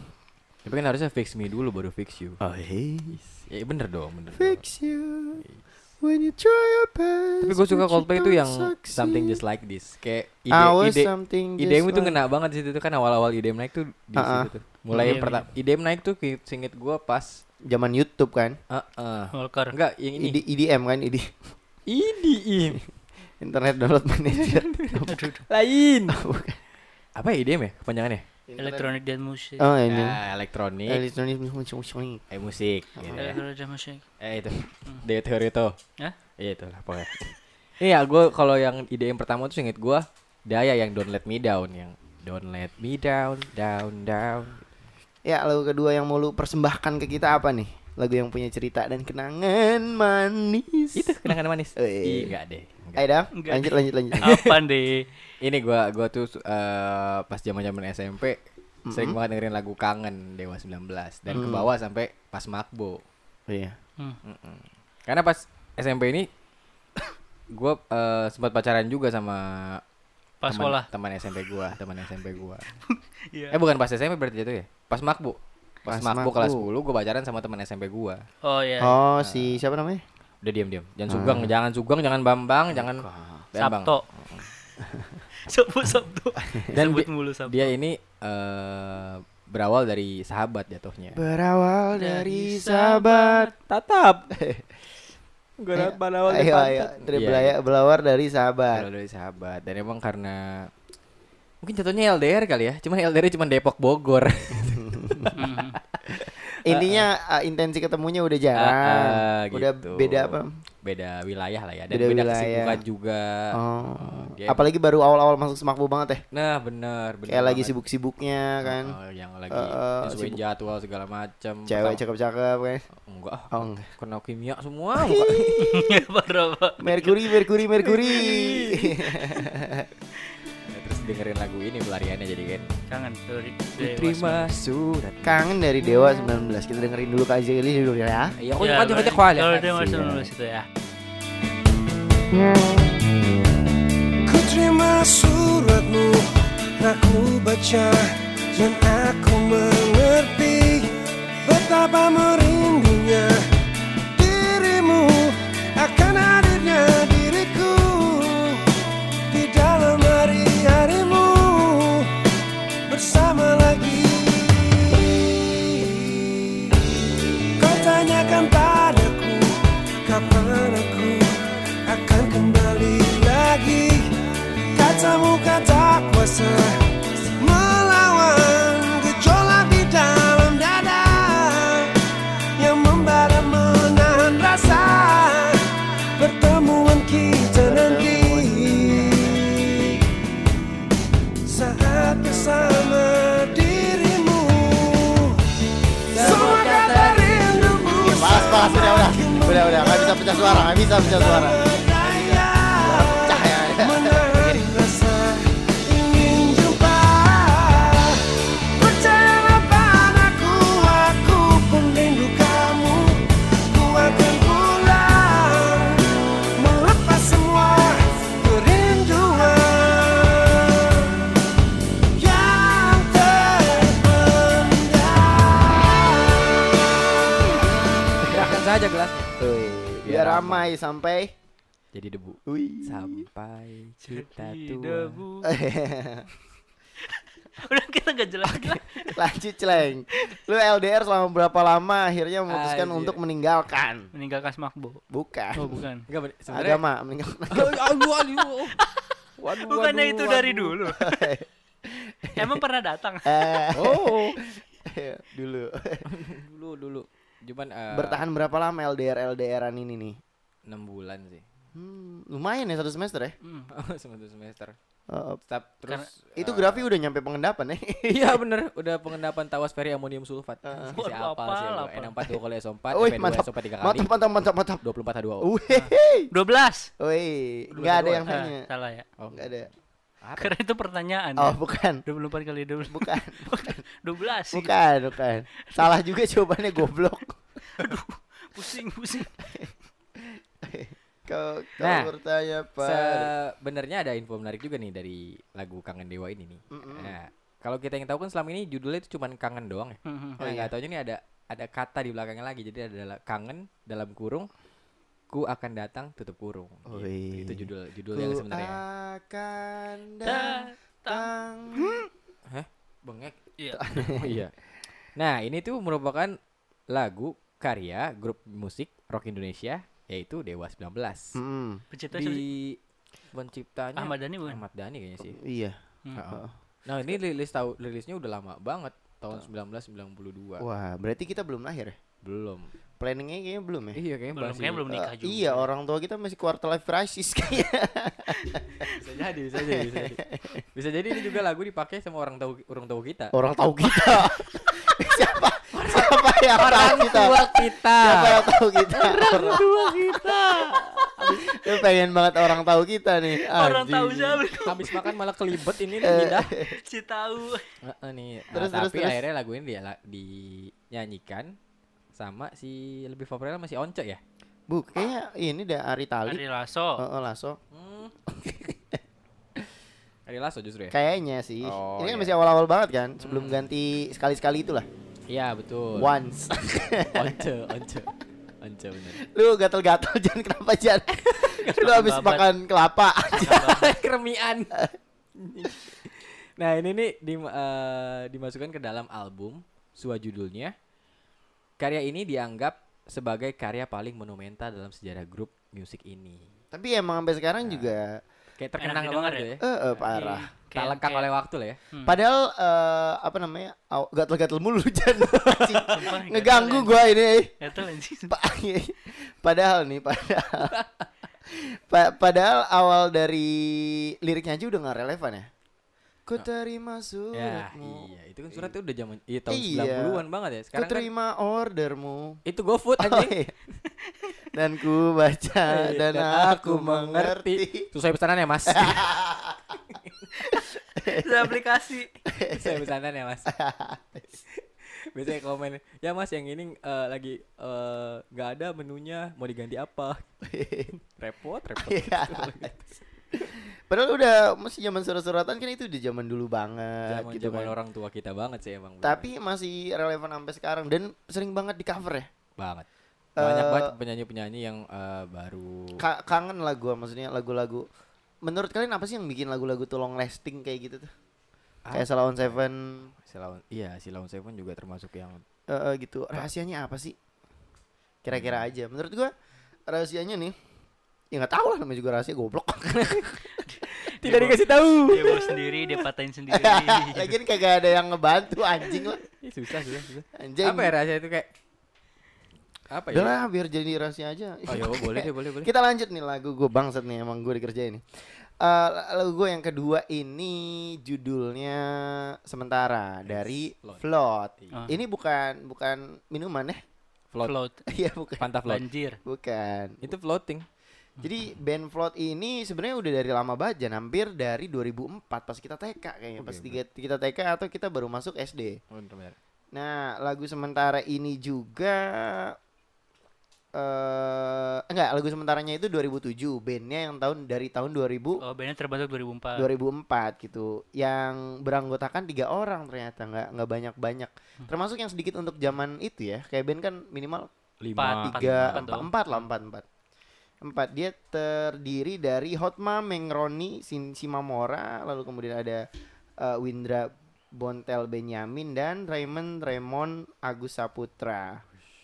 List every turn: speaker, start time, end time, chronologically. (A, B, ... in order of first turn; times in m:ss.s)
0:00.6-0:02.4 A
0:02.4-0:03.2 B
0:03.1-0:04.6 A
0:04.4-0:05.4 B
0:06.0-0:09.4 B
0:07.4-0:17.4 A
0:10.5-0:12.2 B
0:14.2-0:14.5 B
0:14.9-0:15.4 C
0:17.6-0:18.6 B
0:18.7-0:20.4 A
0:19.3-0:19.7 C
0:20.2-0:21.3 B
0:21.9-0:22.8 A
0:23.4-0:25.1 B
0:24.3-0:26.2 A
0:25.1-0:25.4 C
0:26.1-0:26.6 B
0:27.2-0:28.2 A
0:28.5-0:28.9 B
0:28.6-0:29.7 C
0:29.6-0:30.2 B
0:29.9-0:31.0 A
0:30.9-0:32.2 B
0:32.3-0:33.4 A
0:33.0-0:33.4 B
0:33.2-0:34.0 C
0:34.2-0:35.8 A
0:36.4-0:44.7 A
0:45.2-0:51.2 B
0:51.0-0:53.1 A
0:51.8-0:52.3 B
0:53.0-0:54.3 B
0:53.4-0:55.1 C
0:54.3-0:54.5 A
0:55.4-0:58.4 A
0:58.9-0:59.2 B
0:58.9-1:03.0 A
1:01.3-1:01.7 B
1:03.5-1:03.8 B
1:04.2-1:06.3 A
1:07.5-1:09.8 A
1:10.4-1:10.9 C
1:10.5-1:12.7 A
1:13.5-1:18.2 A
1:15.9-1:16.7 B
1:18.4-1:19.0 C
1:18.8-1:20.0 B
1:19.2-1:19.6 A
1:20.4-1:24.4 A
1:21.1-1:21.5 B
1:22.7-1:23.4 B
1:23.6-1:24.0 C
1:24.9-1:25.2 B
1:25.4-1:27.7 C
1:26.7-1:31.2 A
1:31.1-1:33.5 B
1:32.0-1:33.5 C
1:33.7-1:34.3 A
1:34.3-1:34.6 B
1:35.6-1:37.6 A
1:35.8-1:38.9 B
1:38.7-1:40.7 A
1:41.6-1:47.1 A
1:44.6-1:45.4 B
1:45.4-1:45.8 C
1:46.1-1:50.6 B
1:48.6-1:54.6 A
1:51.9-1:52.8 B
1:53.5-1:56.2 B
1:56.3-1:57.7 A
1:57.3-1:59.0 B
1:58.6-2:02.0 A
1:59.5-2:00.4 B
2:01.7-2:02.8 B
2:03.1-2:05.6 A
2:03.5-2:03.9 B
2:05.0-2:05.9 B
2:05.6-2:07.3 C
2:06.8-2:09.9 B
2:07.8-2:09.2 A
2:10.7-2:12.7 A
2:12.9-2:14.5 C
2:13.8-2:15.5 A
2:15.2-2:18.4 B
2:18.4-2:20.3 A
2:18.6-2:20.7 C
2:24.3-2:26.3 D
2:26.8-2:30.9 D
2:31.4-2:33.4 D
2:34.1-2:38.6 D
2:39.3-2:42.1 D
2:42.9-2:46.9 D
2:47.6-2:54.1 D
2:54.7-2:56.8 D
2:57.4-3:10.0 D
3:07.5-3:10.0 B
3:11.4-3:15.4 D
3:16.1-3:41.2 D
3:16.1-3:17.8 A
3:18.0-3:24.7 B
3:42.2-3:46.8 D
3:47.5-3:48.6 B
3:48.2-3:49.4 A
3:49.4-3:51.3 B
3:50.0-3:50.7 A
3:51.9-3:55.2 A
3:52.5-3:53.3 B
3:54.0-3:55.5 C
3:55.4-3:56.3 B
3:57.5-3:59.2 C
3:58.5-4:04.1 B
4:02.5-4:03.2 A
4:04.2-4:05.0 C
4:05.1-4:05.8 B
4:05.6-4:06.0 C
4:06.1-4:06.8 A
4:06.5-4:07.8 B
4:07.5-4:08.8 A
4:09.4-4:10.7 A
4:09.6-4:11.1 C
4:10.8-4:12.6 B
4:12.4-4:13.5 C
4:13.2-4:16.1 B
4:13.7-4:14.4 A
4:16.1-4:18.2 A
4:17.9-4:20.2 B
4:20.7-4:21.4 A
4:21.7-4:23.4 B
4:23.4-4:23.7 C
4:23.7-4:24.8 A
4:25.1-4:25.4 B
4:25.5-4:26.9 A
4:26.4-4:28.4 B
4:28.1-4:34.1 A
4:30.7-4:31.0 B
4:30.9-4:32.3 C
4:32.9-4:34.8 B
4:34.8-4:35.5 A
4:35.4-4:36.3 B
4:35.7-4:36.9 C
4:37.0-4:38.7 B
4:37.8-4:39.1 C
4:39.2-4:39.6 A
4:39.3-4:39.7 B
4:40.2-4:40.5 A
4:40.4-4:44.7 C
4:41.4-4:42.0 B
4:42.9-4:43.8 B
4:44.5-4:47.4 B
4:47.7-4:49.4 C
4:49.4-4:53.3 B
4:51.8-4:52.1 A
4:52.8-5:04.5 A
4:56.7-4:57.2 B
5:00.1-5:00.4 C
5:00.4-5:00.7 B
5:05.3-5:08.8 A
5:06.9-5:12.1 B
5:10.2-5:12.1 C
5:12.5-5:13.4 A
5:13.8-5:14.4 B
5:14.0-5:14.5 A
5:15.2-5:16.4 A
5:16.9-5:21.4 A
5:21.4-5:21.8 B
5:21.9-5:22.5 C
5:22.1-5:22.8 A
5:23.3-5:25.4 A
5:24.0-5:24.6 C
5:25.3-5:26.5 B
5:26.2-5:30.6 A
5:30.6-5:32.0 B
5:32.2-5:32.7 A
5:33.0-5:34.0 B
5:34.0-5:34.8 A
5:34.4-5:35.7 C
5:34.9-5:38.9 B
5:39.0-5:40.2 A
5:39.6-5:40.6 B
5:40.7-5:43.3 A
5:43.3-5:50.3 B
5:45.7-5:51.6 A
5:51.2-5:54.4 B
5:53.5-5:54.8 C
5:54.6-5:56.5 A
5:56.0-5:56.8 B
5:56.7-5:57.7 C
5:57.8-6:01.5 A
5:58.5-5:59.2 B
6:02.2-6:04.2 A
6:04.7-6:06.4 B
6:06.3-6:07.0 C
6:07.0-6:07.6 B
6:07.7-6:08.1 A
6:08.3-6:09.0 B
6:10.3-6:11.0 A
6:10.9-6:14.9 B
6:11.6-6:12.3 A
6:13.2-6:13.6 A
6:15.3-6:16.1 A
6:16.0-6:17.4 B
6:17.1-6:19.2 A
6:19.2-6:23.8 B
6:21.8-6:22.5 C
6:23.3-6:23.9 C
6:23.5-6:24.8 A
6:25.4-6:30.8 A
6:31.8-6:36.5 A
6:36.7-6:38.2 B
6:37.6-6:37.9 A
6:38.6-6:39.7 A
6:38.8-6:39.5 C
6:39.6-6:40.5 B
6:40.1-6:41.3 C
6:40.7-6:41.8 A
6:41.9-6:42.2 C
6:42.0-6:47.6 B
6:45.9-6:47.0 C
6:47.6-6:48.3 C
6:48.3-6:50.7 B
6:50.6-6:51.0 A
6:51.5-6:55.5 B
6:56.3-6:58.8 B
6:57.3-7:01.1 A
6:59.5-7:00.2 B
7:00.7-7:02.4 B
7:02.5-7:03.4 A
7:03.0-7:03.5 B
7:04.5-7:07.9 B
7:05.7-7:09.1 A
7:08.7-7:09.8 B
7:10.4-7:11.5 B
7:11.1-7:12.1 C
7:12.3-7:12.9 B
7:12.5-7:13.5 A
7:13.5-7:14.4 B
7:15.1-7:20.2 A
7:20.4-7:20.9 B
7:21.1-7:22.9 A
7:21.8-7:22.8 B
7:23.3-7:27.8 B
7:27.1-7:29.3 A
7:29.0-7:32.3 B
7:32.6-7:32.9 A
7:33.4-7:33.9 B
7:33.4-7:36.0 A
7:36.0-7:37.9 B
7:38.4-7:41.1 B
7:41.8-7:42.6 A
7:41.9-7:43.1 B
7:43.2-7:45.4 A
7:45.7-7:47.2 B
7:48.2-7:49.3 B
7:48.3-7:48.6 A
7:49.9-7:50.6 B
7:51.3-7:53.4 B
7:53.7-7:57.4 C
7:54.1-7:55.8 A
7:56.5-7:59.2 B
7:59.3-8:01.5 A
8:00.4-8:00.9 B
8:02.9-8:03.4 A
8:03.1-8:16.8 B
8:04.7-8:05.7 A
8:13.3-8:14.0 A
8:17.4-8:17.8 C
8:17.9-8:18.5 B
8:18.4-8:18.8 A
8:18.6-8:19.2 C
8:19.2-8:20.1 B
8:20.0-8:20.7 A
8:21.2-8:28.8 B
8:26.4-8:26.8 A
8:28.9-8:29.4 A
8:29.7-8:32.6 B
8:33.8-8:38.4 B
8:38.4-8:39.7 C
8:39.6-8:47.5 B
8:47.8-8:48.9 A
8:48.0-8:49.4 C
8:48.2-8:49.8 B
8:50.6-8:55.9 B
8:56.4-9:01.6 B